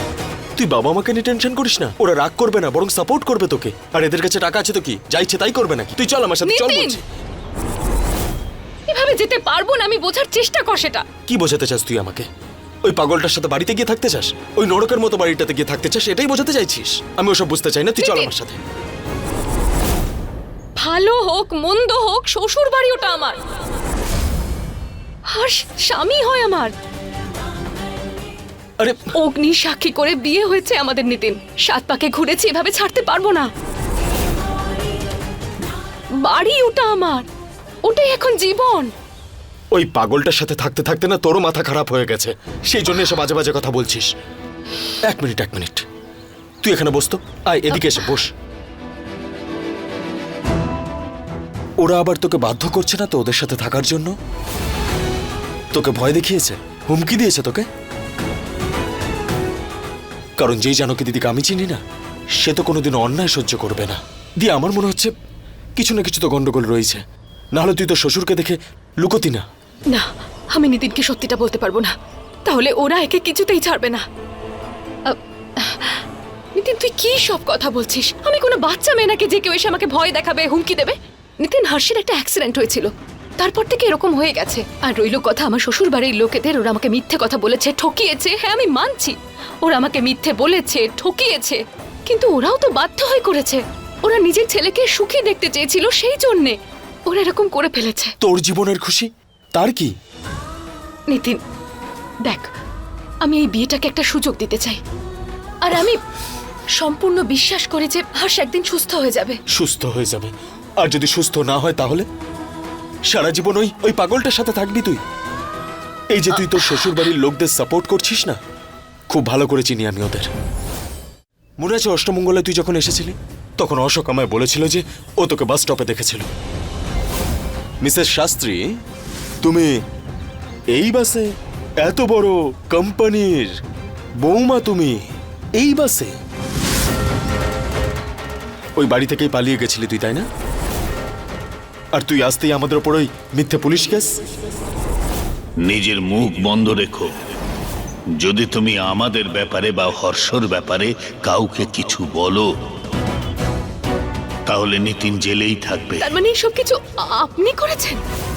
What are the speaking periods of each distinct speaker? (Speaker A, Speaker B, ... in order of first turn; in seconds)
Speaker A: 0.6-7.0, 11.3-12.3, 12.9-18.6, 39.7-44.1, 45.1-45.8, 46.6-48.3, 51.8-54.1, 55.7-57.6, 60.4-61.8, 62.4-65.1, 65.8-67.0, 67.5-69.4, 98.2-99.9, 109.5-112.0, 113.1-115.0, 116.1-118.4, 119.1-120.3, 121.6-126.3, 127.8-128.6, 129.4-129.7, 130.7-131.3, 131.8-133.5, 134.2-135.0, 135.6-136.1, 138.8-140.3, 141.9-144.1
Speaker B: 6.4-7.0, 8.9-11.1, 18.0-18.3, 20.8-23.4, 25.3-26.7, 29.1-33.5, 36.2-37.3, 37.9-38.9, 47.7-48.0, 69.9-71.9, 72.5-74.0, 75.1-76.0, 76.6-96.6, 97.1-98.1, 101.1-101.4, 103.2-104.8, 105.6-106.0, 106.8-109.4, 116.3-116.9, 156.0-158.0
Speaker C: 145.6-147.1, 148.2-152.5, 154.5-156.1